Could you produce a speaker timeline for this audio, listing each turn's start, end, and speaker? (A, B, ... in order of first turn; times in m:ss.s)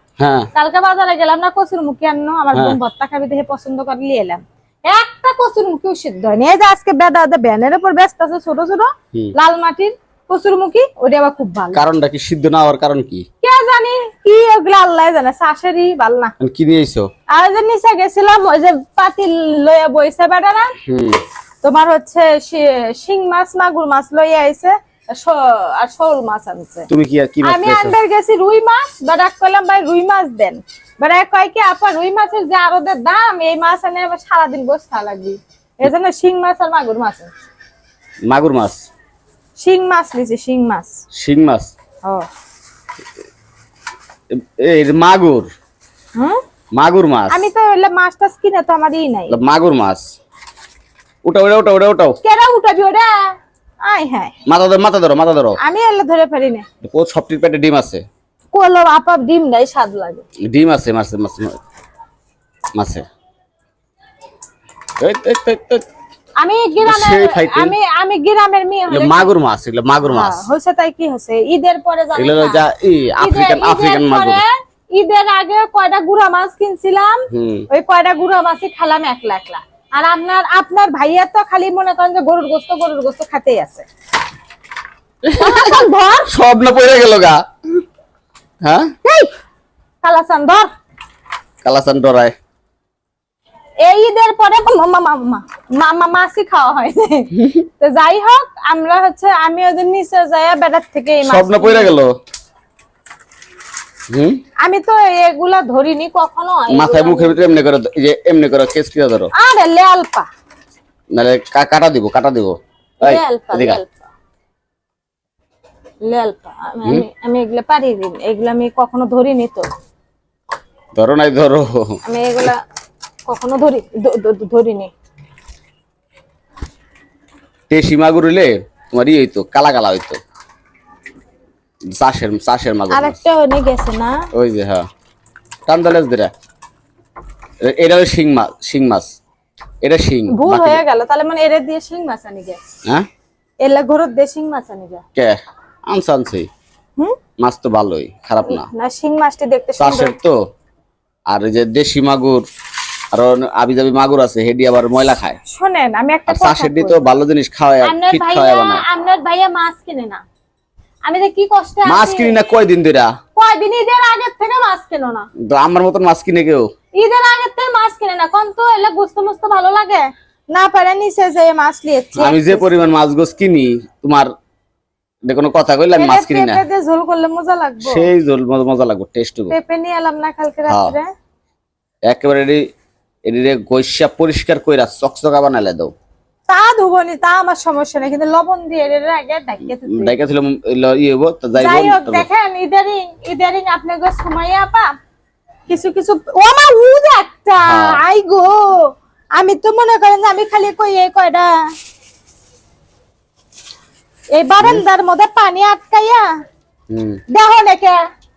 0:00.2-0:00.5 A
0:00.5-0:11.8 B
0:11.7-0:13.2 A
0:13.4-0:16.3 B
0:16.4-0:17.1 A
0:17.3-0:20.7 B
0:20.8-0:21.2 A
0:21.6-0:26.9 B
0:26.9-0:27.9 A
0:27.4-0:37.3 B
0:38.2-0:38.9 A
0:39.6-0:41.0 B
0:41.1-0:41.7 A
0:44.3-0:45.5 A
0:46.7-0:47.5 A
0:47.3-0:49.4 B
0:49.3-0:50.0 A
0:51.2-0:52.2 A
0:52.2-0:54.3 B
0:54.4-0:55.6 A
0:55.6-0:56.6 B
0:56.8-0:58.0 A
0:58.5-1:00.2 B
1:00.4-1:01.6 A
1:02.7-1:03.0 A
1:05.0-1:05.8 A
1:06.4-1:09.3 B
1:06.8-1:07.8 A
1:08.9-1:10.4 A
1:10.0-1:12.6 B
1:12.2-1:14.4 A
1:13.2-1:23.8 B
1:17.3-1:17.7 A
1:25.2-1:27.4 A
1:25.3-1:26.3 B
1:28.6-1:28.9 A
1:29.0-1:29.3 B
1:30.0-1:30.7 B
1:31.6-1:32.3 A
1:33.8-1:41.9 B
1:37.3-1:37.6 A
1:41.2-1:42.1 A
1:44.1-1:44.4 A
1:44.6-1:47.6 B
1:46.7-1:49.3 A
1:49.3-1:50.3 B
1:51.1-1:53.8 A
1:53.0-1:54.1 B
1:56.0-1:59.7 B
2:00.9-2:02.0 A
2:02.0-2:02.6 B
2:03.3-2:04.9 B
2:07.7-2:10.2 A
2:11.9-2:13.2 A
2:12.9-2:14.2 B
2:14.3-2:14.8 A
2:15.7-2:16.3 A
2:17.6-2:19.1 A
2:19.8-2:20.8 A
2:20.3-2:22.6 B
2:23.6-2:25.0 B
2:25.2-2:26.5 A
2:27.4-2:28.7 A
2:28.4-2:30.1 B
2:29.8-2:30.4 A
2:31.3-2:32.4 A
2:33.1-2:35.4 A
2:35.4-2:37.1 B
2:36.3-2:38.8 A
2:37.8-2:40.2 B
2:41.0-2:42.4 B
2:41.8-2:43.1 A
2:43.4-2:45.3 B
2:45.4-2:46.7 A
2:46.9-2:52.7 B
2:52.2-2:54.3 A
2:55.2-2:56.6 A
2:55.9-2:58.1 B
2:57.8-2:59.5 A
2:59.5-3:01.1 B
3:00.7-3:01.0 A
3:02.1-3:02.6 A
3:03.2-3:05.9 A
3:06.5-3:10.1 B
3:09.7-3:12.3 A
3:11.6-3:14.9 B
3:15.7-3:21.6 B
3:17.6-3:18.0 A
3:24.3-3:26.3 B
3:26.9-3:27.2 A
3:27.3-3:28.0 B